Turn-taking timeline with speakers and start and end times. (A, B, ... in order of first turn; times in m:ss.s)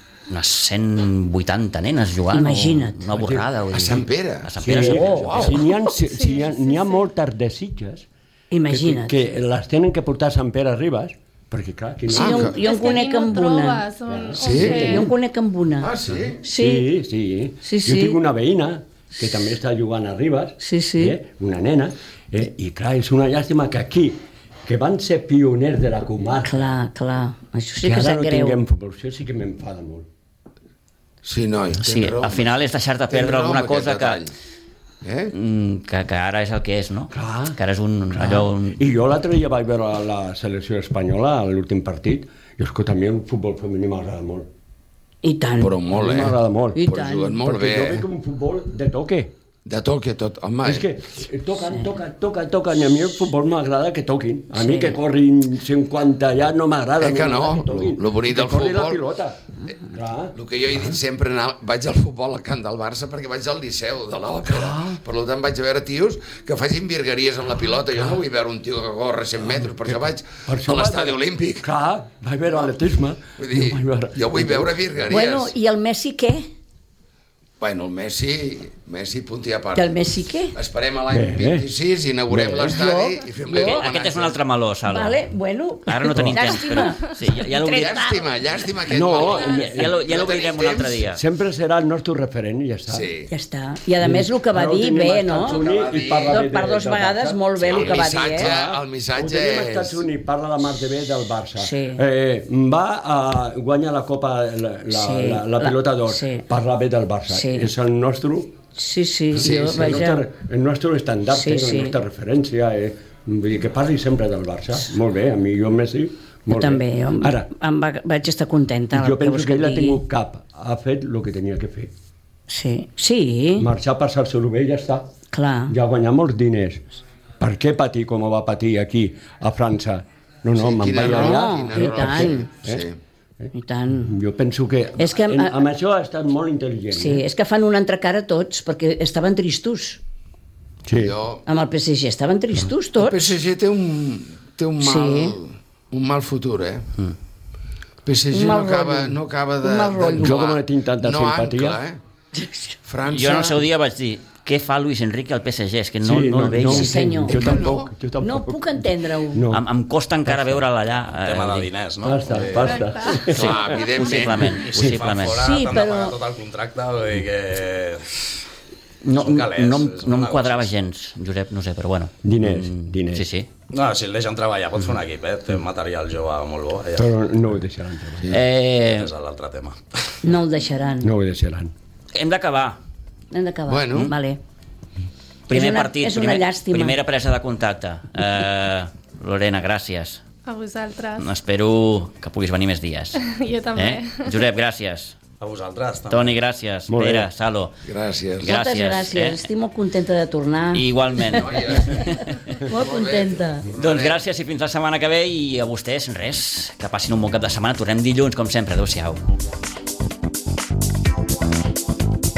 0:00.3-0:05.6 A
0:02.3-0:03.1 B
0:03.1-0:03.9 C
0:03.7-0:05.6 D
0:04.6-0:08.1 C
0:04.9-0:05.6 B
0:06.1-0:07.0 E
0:08.5-0:09.2 B
0:08.7-0:12.6 C
0:12.1-0:13.8 B
0:12.1-0:12.6 D
0:12.5-0:15.1 E
0:14.1-0:15.1 C
0:14.4-0:15.0 D
0:14.6-0:15.9 B
0:15.8-0:16.4 D
0:16.1-0:26.6 C
0:16.4-0:16.9 B
0:17.6-0:18.2 B
0:20.6-0:21.2 B
0:26.4-0:28.6 B
0:27.8-0:30.1 C
0:31.2-0:32.5 D
0:31.8-0:34.2 A
0:33.1-0:34.3 D
0:35.0-0:35.3 D
0:35.3-0:38.8 A
0:37.1-0:37.6 C
0:38.1-0:44.5 C
0:45.2-0:45.8 B
0:45.6-0:48.0 D
0:45.9-0:49.3 C
0:46.7-0:47.4 B
0:49.6-0:50.9 D
0:50.6-1:01.0 C
0:54.5-0:55.0 B
0:57.0-0:59.0 D
1:00.3-1:11.7 D
1:04.4-1:05.0 C
1:10.4-1:15.1 C
1:13.4-1:15.5 D
1:15.1-1:16.5 B
1:17.6-1:20.0 D
1:19.7-1:20.5 B
1:20.5-1:24.4 D
1:21.1-1:21.7 C
1:22.3-1:23.0 C
1:22.6-1:23.8 B
1:23.5-1:25.2 A
1:24.9-1:28.3 B
1:25.9-1:28.1 A
1:27.6-1:31.0 D
1:28.9-1:30.0 C
1:29.2-1:31.2 A
1:31.1-1:33.1 C
1:32.9-1:33.3 D
1:33.3-1:35.6 B
1:34.0-1:48.5 C
1:35.4-1:36.4 D
1:36.3-1:38.5 B
1:37.6-1:40.0 D
1:41.6-1:42.0 B
1:44.9-1:46.4 B
1:47.3-1:47.7 B
1:48.7-1:50.2 B
1:49.3-1:57.5 C
1:49.4-1:49.8 D
1:51.3-1:52.0 B
1:56.5-2:00.0 B
1:58.9-2:01.9 C
2:02.5-2:03.7 B
2:03.6-2:05.1 C
2:05.3-2:05.8 B
2:05.7-2:06.8 C
2:07.4-2:12.8 C
2:10.6-2:13.0 D
2:11.0-2:12.5 B
2:13.5-2:14.2 B
2:14.0-2:17.2 C
2:15.0-2:15.6 B
2:16.9-2:20.0 B
2:20.8-2:21.1 C
2:21.0-2:21.4 D
2:21.4-2:23.3 B
2:23.0-2:26.9 D
2:24.8-2:25.4 B
2:28.0-2:32.0 D
2:28.3-2:30.4 B
2:30.1-2:31.8 C
2:32.4-2:32.7 B
2:32.8-2:33.6 D
2:33.1-2:37.2 A
2:36.0-2:39.6 C
2:36.5-2:37.6 B
2:37.3-2:37.9 D
2:38.2-2:39.4 B
2:39.5-2:41.7 A
2:41.0-2:43.2 F
2:42.0-2:43.6 C
2:42.6-2:43.3 E
2:43.2-2:45.6 A
2:43.3-2:44.6 D
2:44.1-2:48.4 F
2:45.2-2:46.2 B
2:49.0-2:53.5 A
2:49.1-2:50.7 F
2:52.2-2:53.3 C
2:53.7-2:57.3 F
2:56.9-2:58.4 C
2:58.3-2:59.1 A
2:58.8-3:00.2 F
3:00.2-3:01.1 B
3:01.0-3:01.7 C
3:02.1-3:02.8 A
3:03.3-3:04.4 B
3:03.7-3:04.1 D
3:05.5-3:10.2 A
3:05.5-3:07.0 B
3:10.4-3:11.3 E
3:11.2-3:13.2 A
3:13.2-3:14.4 E
3:13.8-3:15.2 A
3:15.4-3:16.4 F
3:16.1-3:17.7 A
3:16.9-3:17.3 C
3:17.8-3:18.5 D
3:18.4-3:19.4 A
3:18.4-3:23.7 B
3:20.7-3:22.6 A
3:21.3-3:24.2 D
3:23.8-3:29.2 A